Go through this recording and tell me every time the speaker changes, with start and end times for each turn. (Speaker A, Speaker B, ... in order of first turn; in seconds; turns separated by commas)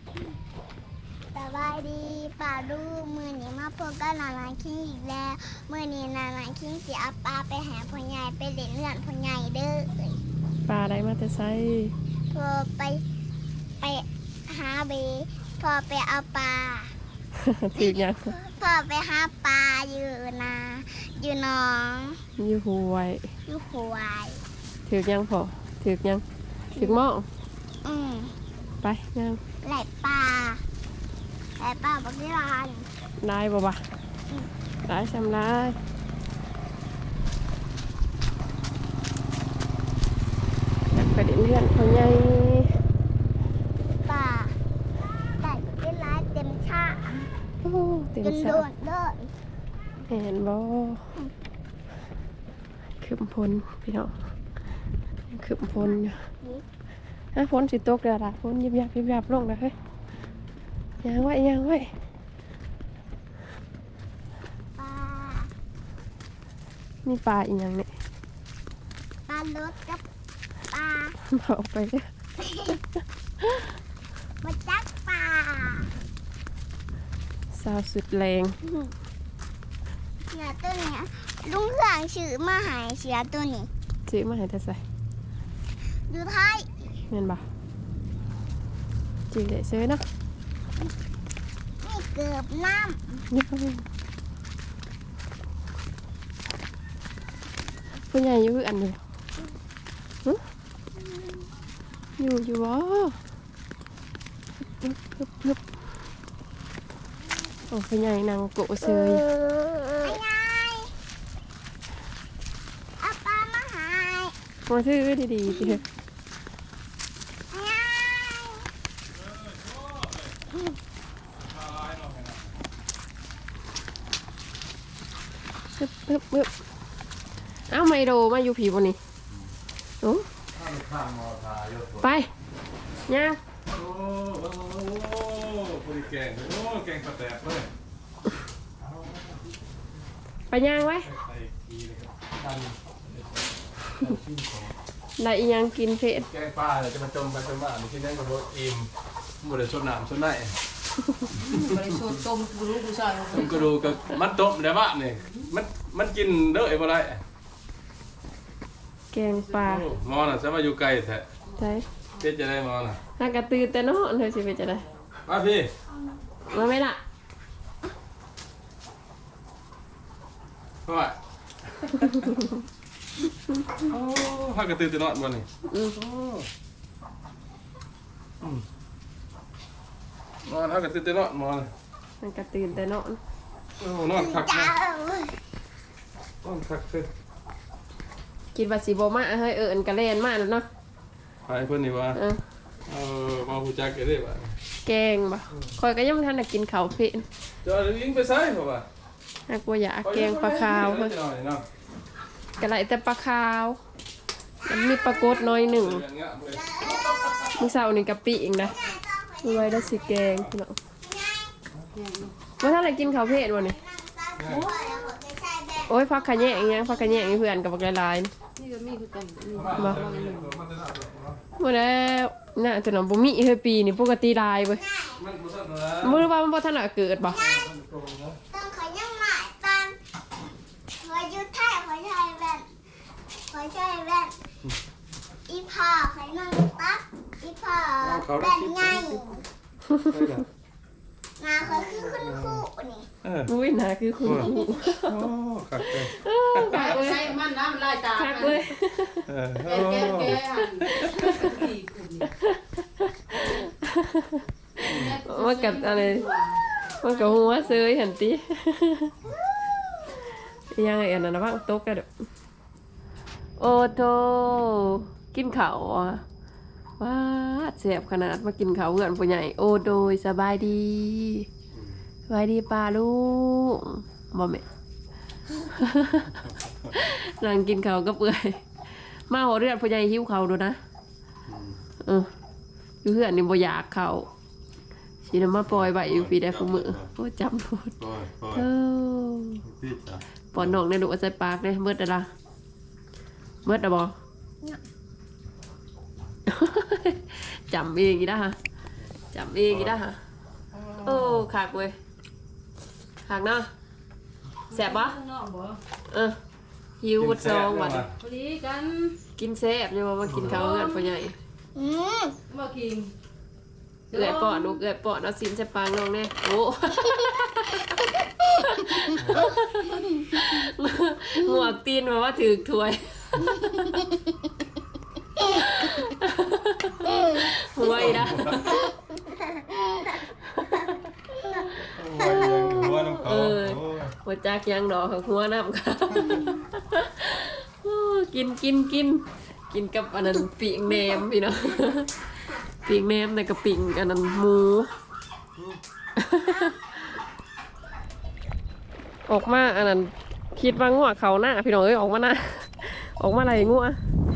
Speaker A: 1.3-10.2, Speaker B: 10.7-11.9, Speaker A: 12.3-13.0, Speaker A: 13.8-16.9, Speaker B: 17.4-18.3, Speaker A: 17.8-22.2, Speaker B: 22.4-23.3, Speaker A: 23.5-24.4, Speaker B: 24.9-26.2, Speaker A: 26.7-27.0, Speaker B: 26.8-27.2, Speaker A: 27.8-28.3, Speaker B: 28.8-29.4, Speaker A: 29.6-30.6, Speaker A: 31.6-32.9, Speaker B: 33.2-33.8, Speaker B: 34.9-35.8, Speaker B: 40.9-42.7, Speaker A: 44.0-44.5, Speaker A: 45.4-47.3, Speaker B: 47.6-48.6, Speaker A: 48.2-49.3, Speaker B: 50.0-51.1, Speaker B: 53.0-54.1, Speaker B: 55.3-56.2, Speaker A: 55.8-56.6, Speaker B: 57.3-59.7, Speaker B: 61.0-61.9, Speaker A: 64.8-65.5, Speaker B: 67.0-67.9, Speaker A: 69.3-70.0, Speaker A: 70.7-71.2, Speaker B: 71.3-72.1, Speaker A: 72.4-72.7, Speaker B: 73.4-73.7, Speaker A: 74.4-75.9, Speaker B: 77.5-78.5, Speaker A: 78.6-78.9, Speaker A: 80.3-83.7, Speaker B: 84.1-84.8, Speaker A: 86.1-86.9, Speaker B: 87.1-87.4, Speaker B: 89.3-90.0, Speaker A: 91.8-93.2, Speaker B: 93.3-93.8, Speaker B: 98.1-99.0, Speaker B: 102.2-103.2, Speaker B: 104.8-105.6, Speaker B: 107.7-109.2, Speaker A: 108.8-110.9, Speaker A: 113.0-114.3, Speaker B: 114.7-115.8, Speaker A: 115.5-115.8, Speaker A: 117.5-118.7, Speaker C: 119.1-120.3, Speaker C: 121.4-122.5, Speaker B: 125.8-126.5, Speaker B: 127.7-129.0, Speaker B: 130.0-130.3, Speaker C: 130.5-132.1, Speaker B: 132.0-132.3, Speaker B: 133.1-133.4, Speaker C: 133.7-137.7, Speaker C: 138.8-139.6, Speaker B: 140.5-141.1, Speaker C: 140.8-144.7, Speaker B: 145.2-146.3, Speaker C: 146.2-148.9, Speaker C: 149.4-150.5, Speaker D: 151.3-154.0, Speaker C: 151.4-152.2, Speaker C: 153.3-157.2, Speaker B: 159.1-159.9, Speaker C: 159.6-161.3, Speaker B: 161.6-161.8, Speaker C: 162.2-163.0, Speaker B: 163.2-164.8, Speaker C: 165.2-165.7, Speaker B: 166.5-167.0, Speaker C: 170.9-171.2, Speaker C: 171.7-172.5, Speaker C: 173.8-176.5, Speaker B: 175.7-175.9, Speaker C: 180.4-181.7, Speaker B: 182.2-183.2, Speaker C: 183.8-184.7, Speaker A: 184.1-185.4, Speaker C: 186.4-187.1, Speaker B: 188.5-190.7, Speaker C: 191.5-192.2, Speaker B: 192.1-192.4, Speaker C: 192.9-194.5, Speaker B: 194.8-197.2, Speaker C: 197.6-198.8, Speaker B: 199.5-201.1, Speaker C: 200.0-201.6, Speaker B: 202.6-203.8, Speaker A: 204.6-205.7, Speaker B: 204.7-206.0, Speaker C: 205.7-206.6, Speaker A: 206.5-207.3, Speaker D: 207.0-207.5, Speaker B: 207.6-208.8, Speaker A: 208.6-210.5, Speaker B: 209.4-210.8, Speaker A: 211.0-211.6, Speaker D: 211.9-212.3, Speaker B: 212.6-213.7, Speaker A: 212.6-217.4, Speaker C: 214.3-214.7, Speaker D: 214.5-214.8, Speaker B: 215.9-218.3, Speaker D: 218.6-220.5, Speaker C: 219.5-221.4, Speaker B: 221.6-224.8, Speaker A: 224.7-225.2, Speaker C: 225.2-226.3, Speaker B: 226.0-227.4, Speaker A: 227.3-227.7, Speaker C: 227.3-228.4, Speaker A: 228.5-229.9, Speaker A: 231.0-232.7, Speaker A: 233.5-234.3, Speaker A: 235.5-239.4, Speaker C: 238.0-239.3, Speaker C: 240.0-240.5, Speaker A: 241.4-243.1, Speaker C: 242.1-242.6, Speaker C: 243.2-243.5, Speaker B: 243.5-245.1, Speaker C: 244.2-244.5, Speaker A: 244.5-244.9, Speaker C: 245.0-246.9, Speaker B: 246.1-247.4, Speaker D: 246.8-248.6, Speaker B: 248.1-249.2, Speaker C: 249.3-250.4, Speaker D: 249.6-252.3, Speaker B: 250.3-251.7, Speaker B: 252.3-256.3, Speaker D: 254.8-257.7, Speaker C: 254.9-255.2, Speaker B: 257.0-259.1, Speaker B: 260.6-262.1, Speaker B: 263.6-266.2, Speaker B: 267.0-271.5, Speaker B: 272.3-274.6, Speaker B: 275.5-280.8, Speaker C: 281.5-281.8, Speaker B: 282.0-282.3, Speaker B: 283.0-284.3, Speaker B: 285.2-287.9, Speaker C: 285.7-287.1, Speaker C: 288.0-288.7, Speaker B: 288.5-289.6, Speaker C: 289.6-290.8, Speaker B: 290.5-292.3, Speaker B: 293.6-294.1, Speaker B: 296.5-298.6, Speaker B: 299.3-300.2, Speaker C: 299.6-300.0, Speaker C: 300.8-301.4, Speaker B: 301.0-301.9, Speaker B: 303.2-303.7, Speaker B: 304.7-305.2, Speaker D: 304.7-305.8, Speaker B: 306.1-306.4, Speaker B: 307.0-308.1, Speaker C: 307.2-308.1, Speaker D: 308.2-309.2, Speaker B: 309.4-311.3, Speaker C: 310.3-310.6, Speaker D: 310.6-310.9, Speaker A: 311.7-312.4, Speaker D: 312.5-313.1, Speaker D: 314.1-314.8, Speaker B: 314.1-324.1, Speaker C: 319.1-319.5, Speaker A: 323.7-324.2, Speaker B: 325.4-328.9, Speaker C: 327.9-328.6, Speaker A: 328.6-330.0, Speaker B: 329.9-342.2, Speaker C: 331.8-334.1, Speaker A: 332.2-332.9, Speaker B: 342.8-344.9, Speaker B: 346.1-347.1, Speaker B: 349.3-354.0